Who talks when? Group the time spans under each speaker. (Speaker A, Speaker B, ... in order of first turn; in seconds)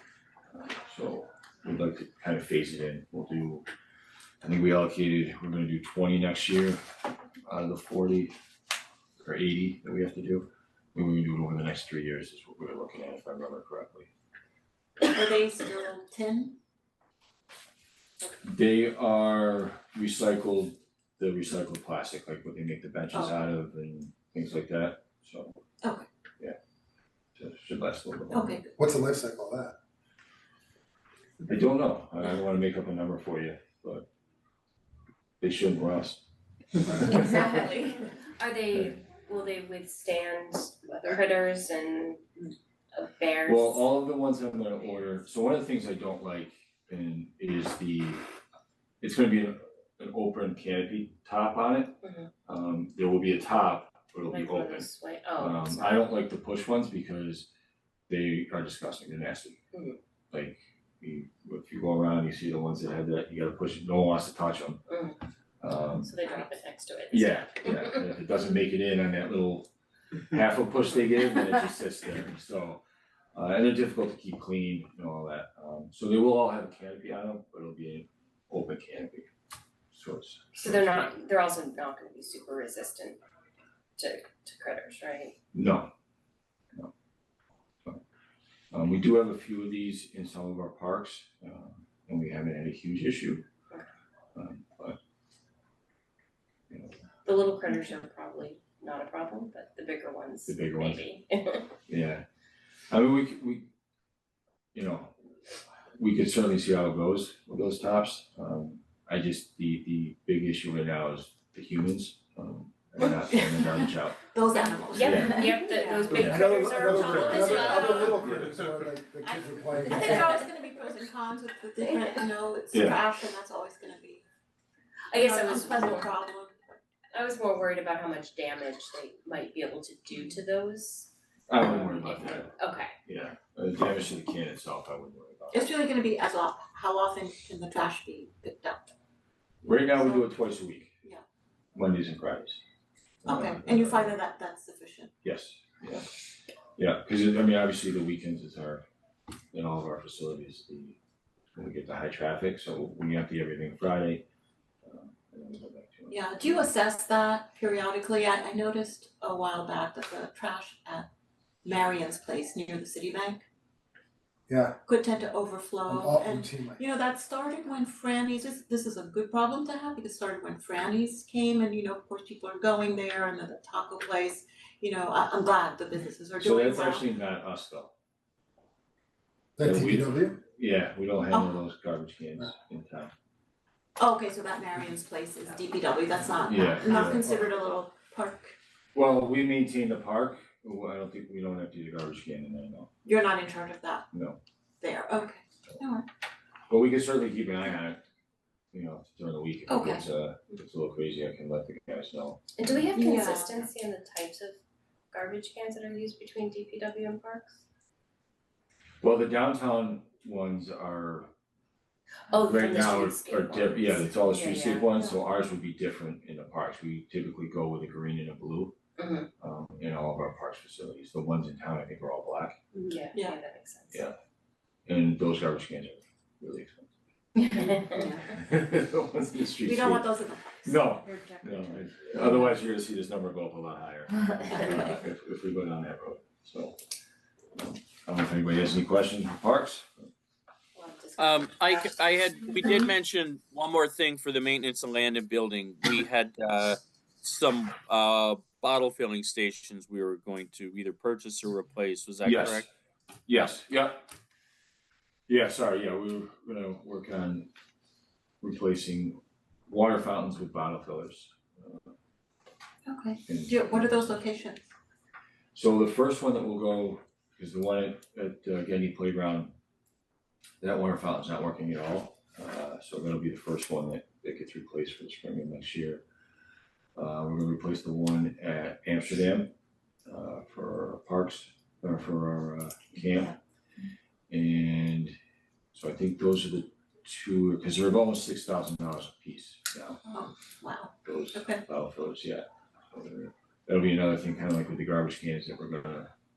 Speaker A: 0.5-3.6, 4.4-6.8, 7.5-8.3, 9.2-14.1, 18.4-25.6, 27.4-28.6, 31.4-34.1, 35.4-36.2, 43.5-48.2, 49.0-57.5, 58.1-59.6, 60.3-64.8, 65.6-66.1, 67.1-69.7, 70.3-72.8, 73.3-79.3, 79.9-81.1, 85.5-85.9, 88.7-93.4, 94.3-95.0, 96.7-97.0, 100.5-101.0, 101.9-102.2, 102.9-103.7, 104.7-105.1, 106.0-114.2, 114.9-115.6, 116.1-116.5, 122.7-123.0, 131.5-135.8, 139.6-140.9, 141.7-142.6, 143.2-144.2, 145.2-146.1, 146.8-148.8, 149.5-151.0, 151.5-154.2, 154.8-156.6, 176.4-177.9, 179.6-183.1, 186.4-187.2, 188.9-192.9, 194.1-194.4, 196.7-198.0, 198.7-202.8, 209.0-211.3, 212.4-218.7, 219.4-222.6, 223.9-224.2, 224.8-226.9, 227.6-230.1, 230.6-236.8, 237.5-240.1, 252.2-252.7, 253.3-254.1, 255.3-257.5, 258.4-261.8, 263.3-263.5, 265.5-269.5, 270.6-276.0, 276.9-279.5, 280.1-283.3, 284.3-285.1, 285.7-290.0, 291.0-296.1
Speaker B: 15.1-16.6, 23.1-23.4, 28.3-28.7, 37.2-37.7, 113.2-113.6, 114.2-118.3, 119.2-124.2, 125.1-126.8, 135.5-138.9, 139.9-140.2, 143.2-145.1, 156.1-161.1, 161.6-163.4, 164.8-177.0, 181.3-181.6, 184.0-188.6, 193.0-194.1, 194.8-196.1, 199.7-200.0, 202.9-203.6, 222.7-223.3, 227.4-228.2, 229.6-230.8, 262.9-264.6, 290.1-291.6
Speaker C: 28.8-29.8, 116.0-120.4, 164.5-164.8, 165.9-166.8, 179.6-180.4
Speaker D: 37.2-37.7, 38.4-42.2, 42.9-43.9, 52.0-52.3, 54.3-56.0, 59.7-60.0, 64.9-65.2, 66.0-68.0, 80.5-83.2, 84.0-85.3, 97.2-101.7, 114.9-118.2, 125.1-126.1, 127.1-131.1, 131.8-132.9, 202.6-204.6, 205.1-207.6, 212.3-215.1, 218.9-219.3, 222.9-224.0, 227.6-228.0, 240.7-242.8
Speaker E: 241.2-252.7